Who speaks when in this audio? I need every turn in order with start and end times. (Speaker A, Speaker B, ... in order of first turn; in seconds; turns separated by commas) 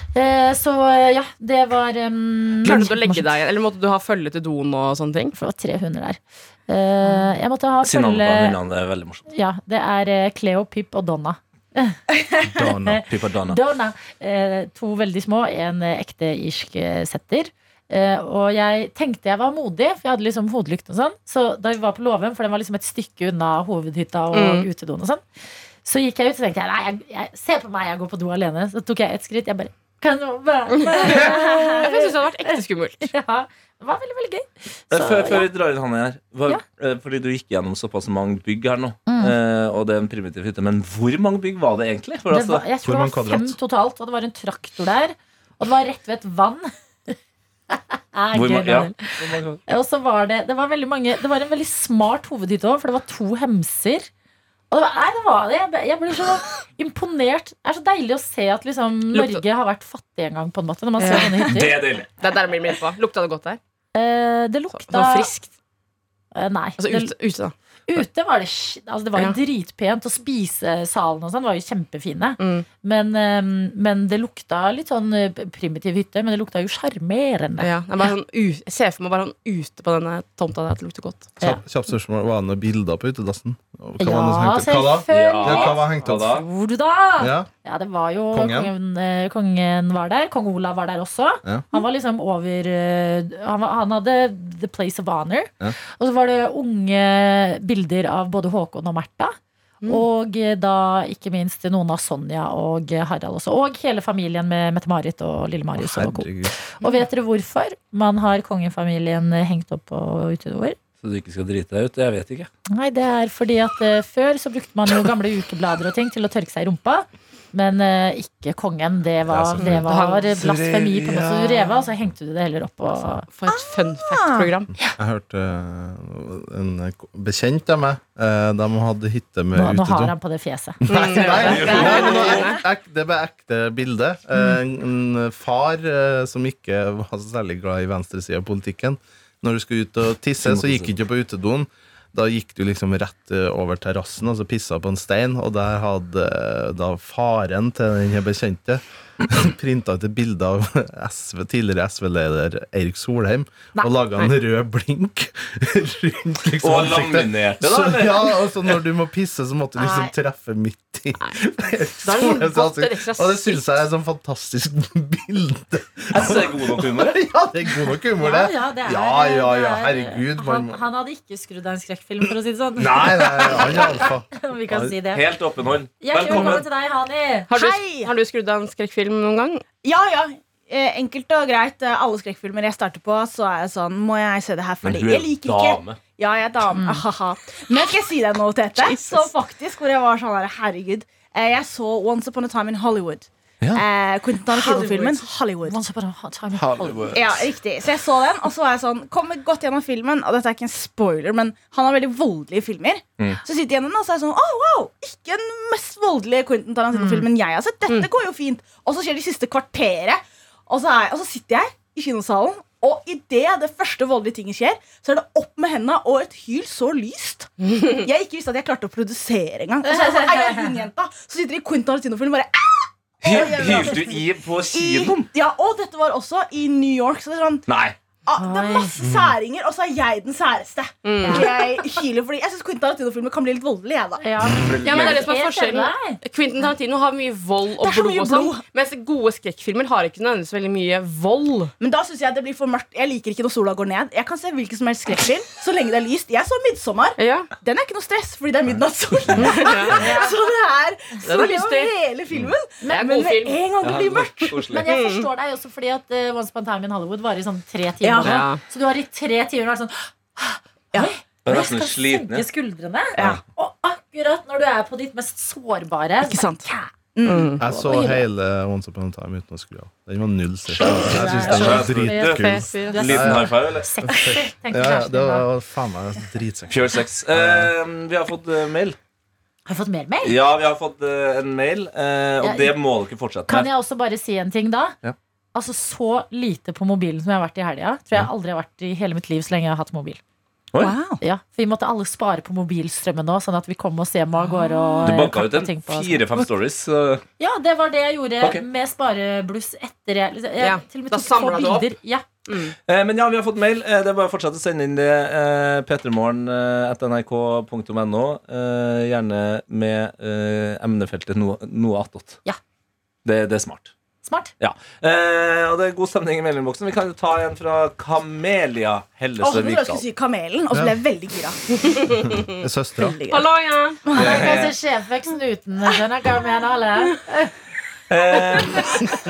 Speaker A: 0.1-3.3, Speaker B: 2.6-5.3, Speaker A: 5.3-8.6, Speaker B: 7.0-7.3, Speaker C: 7.8-9.2, Speaker A: 9.3-12.0, Speaker D: 12.5-13.0, Speaker A: 12.5-25.2, Speaker C: 13.0-13.6, Speaker B: 24.3-24.7, Speaker A: 25.8-35.5, Speaker B: 30.7-33.1, Speaker C: 34.9-42.6, Speaker A: 39.1-39.4, Speaker A: 42.3-47.1, Speaker D: 42.8-43.6, Speaker A: 47.7-54.1, Speaker C: 48.3-49.6, Speaker A: 54.7-61.8, Speaker B: 59.1-59.4, Speaker B: 61.0-61.6, Speaker C: 61.5-62.1, Speaker B: 62.2-63.6, Speaker A: 64.0-65.3, Speaker B: 64.8-65.5, Speaker A: 66.3-67.1, Speaker B: 66.8-67.5, Speaker A: 67.9-77.7, Speaker B: 72.4-72.7, Speaker B: 77.6-81.3, Speaker D: 81.4-86.3, Speaker A: 84.0-99.4, Speaker C: 85.1-86.5, Speaker D: 87.2-87.5, Speaker D: 88.3-88.7, Speaker A: 99.9-110.8, Speaker D: 105.8-106.5, Speaker C: 111.0-112.5, Speaker A: 112.7-123.3, Speaker C: 119.3-121.8, Speaker B: 119.6-120.3, Speaker B: 123.3-124.7, Speaker E: 123.5-124.5, Speaker D: 125.0-130.2, Speaker A: 129.6-130.8, Speaker D: 130.8-170.8, Speaker B: 130.9-132.6, Speaker C: 131.4-132.4, Speaker A: 131.6-132.2, Speaker C: 140.4-140.9, Speaker C: 156.6-158.4, Speaker A: 159.8-160.1, Speaker B: 162.0-163.6, Speaker C: 166.1-167.2, Speaker A: 168.2-175.3, Speaker C: 172.8-174.0, Speaker D: 172.8-174.3, Speaker C: 174.7-176.7, Speaker A: 176.0-177.5, Speaker B: 177.5-179.6, Speaker E: 177.5-178.1, Speaker E: 179.8-195.8, Speaker C: 184.8-186.0, Speaker A: 186.8-187.1, Speaker B: 188.8-189.3, Speaker A: 194.6-195.1, Speaker A: 195.7-197.2, Speaker C: 196.6-197.5, Speaker E: 197.1-227.7, Speaker A: 206.9-207.3, Speaker B: 217.6-217.9, Speaker A: 219.9-220.7, Speaker C: 223.2-225.3, Speaker C: 227.7-228.0, Speaker E: 228.2-234.3, Speaker A: 228.4-228.9, Speaker D: 229.0-229.3, Speaker B: 231.0-231.6, Speaker A: 234.2-236.2, Speaker C: 234.5-235.3, Speaker B: 234.8-241.7, Speaker E: 237.8-238.6, Speaker E: 241.8-254.8, Speaker B: 247.2-247.5, Speaker C: 249.2-249.6, Speaker B: 249.4-250.0, Speaker A: 249.9-250.4, Speaker B: 251.2-251.9, Speaker A: 252.8-253.3, Speaker B: 252.9-253.7, Speaker C: 253.8-254.9, Speaker A: 254.7-266.9, Speaker B: 254.9-255.3, Speaker E: 258.0-258.4, Speaker B: 258.2-258.6, Speaker C: 261.4-262.5, Speaker C: 263.2-263.4, Speaker E: 266.3-267.6, Speaker B: 267.2-267.6, Speaker D: 267.6-277.7, Speaker A: 267.6-268.2, Speaker A: 270.8-275.5, Speaker C: 271.4-273.9, Speaker B: 272.4-273.0, Speaker C: 276.7-279.0, Speaker A: 279.7-280.4, Speaker C: 280.2-283.7, Speaker A: 282.4-282.8, Speaker A: 283.5-285.0, Speaker A: 285.5-290.2, Speaker C: 290.7-291.0, Speaker E: 290.8-291.2, Speaker A: 291.2-296.4, Speaker C: 295.0-297.2, Speaker A: 297.4-302.3, Speaker B: 300.6-301.9, Speaker B: 302.5-302.7, Speaker C: 302.9-312.4, Speaker C: 313.2-313.9, Speaker A: 314.2-314.5, Speaker C: 314.6-320.1, Speaker E: 319.4-321.6, Speaker B: 322.0-322.3, Speaker D: 322.5-323.2, Speaker E: 323.0-323.5, Speaker B: 323.3-324.0, Speaker E: 324.1-324.6, Speaker C: 324.1-324.8, Speaker A: 324.1-327.5, Speaker C: 328.1-329.0